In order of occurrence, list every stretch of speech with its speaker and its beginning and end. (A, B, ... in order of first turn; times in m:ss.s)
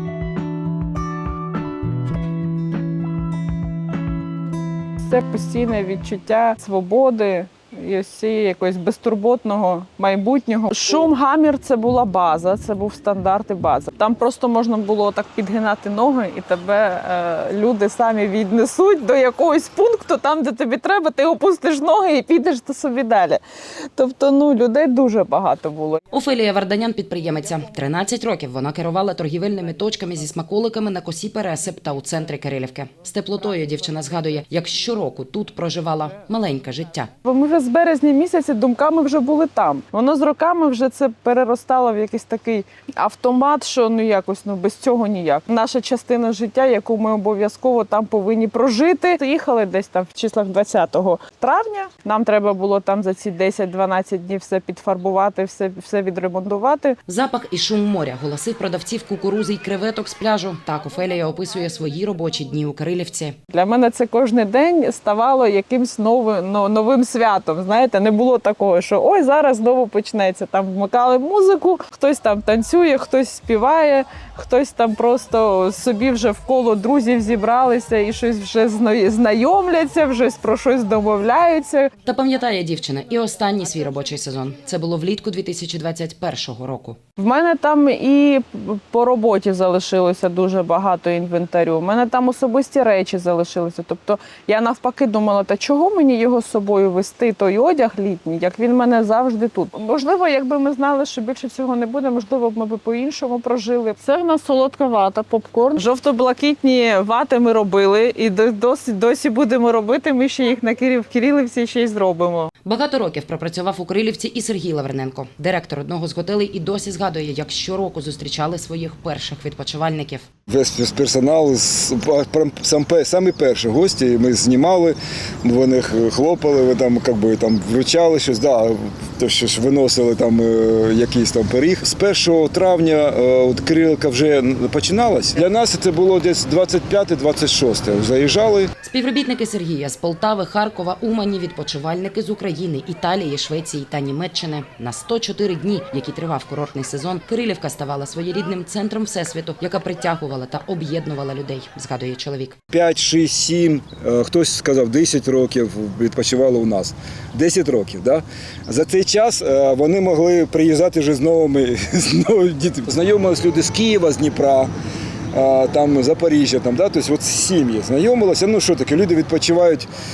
0:05.0-0:23.4 A
0:24.0-0:26.0 A
0:26.1-0:37.1 B
0:37.2-0:57.0 A
0:57.1-1:03.4 B
1:03.5-1:21.9 A
1:22.0-1:27.0 B
1:27.2-1:52.5 A
1:52.6-2:00.3 B
2:00.5-2:18.7 C
2:18.8-2:32.6 B
2:32.7-2:44.7 C
2:45.3-2:49.9 C